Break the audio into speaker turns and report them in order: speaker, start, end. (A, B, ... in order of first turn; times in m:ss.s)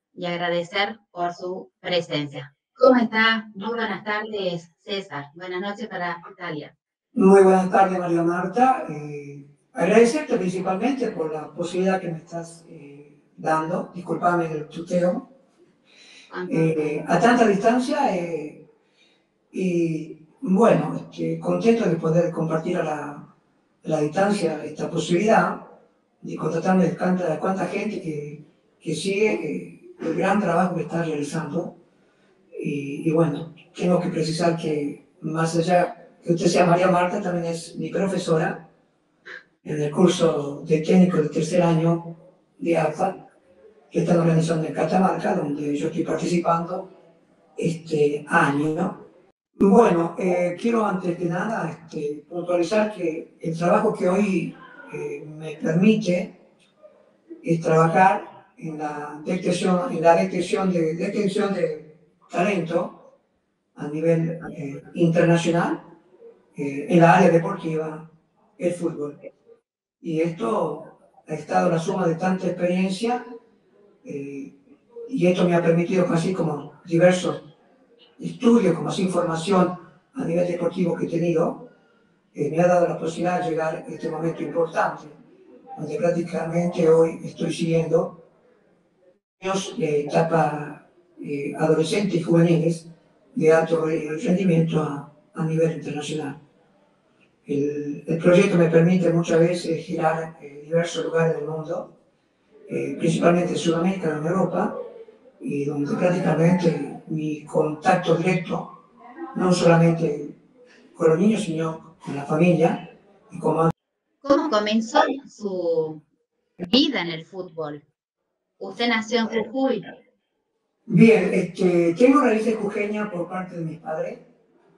0:00.1-0:06.7 A
0:07.2-0:15.3 B
0:16.3-0:17.0 A
0:16.5-0:18.7 B
0:19.5-0:23.3 B
0:23.8-0:25.7 B
0:26.2-0:31.8 B
0:32.6-0:38.6 B
0:39.6-0:43.2 B
0:43.9-0:46.9 B
0:47.6-0:49.0 B
0:49.6-0:56.4 B
0:57.4-1:03.1 B
1:03.8-1:05.9 B
1:06.6-1:09.2 B
1:10.0-1:13.2 B
1:14.0-1:14.5 B
1:15.1-1:17.5 B
1:18.2-1:21.7 B
1:22.3-1:25.1 B
1:25.8-1:28.2 B
1:29.4-1:36.4 B
1:37.4-1:41.9 B
1:42.7-1:44.8 B
1:45.4-1:48.8 B
1:49.3-1:50.4 B
1:50.9-1:53.7 B
1:54.2-1:56.0 A
1:56.6-1:57.9 A
1:58.6-1:59.9 A
2:00.9-2:04.2 B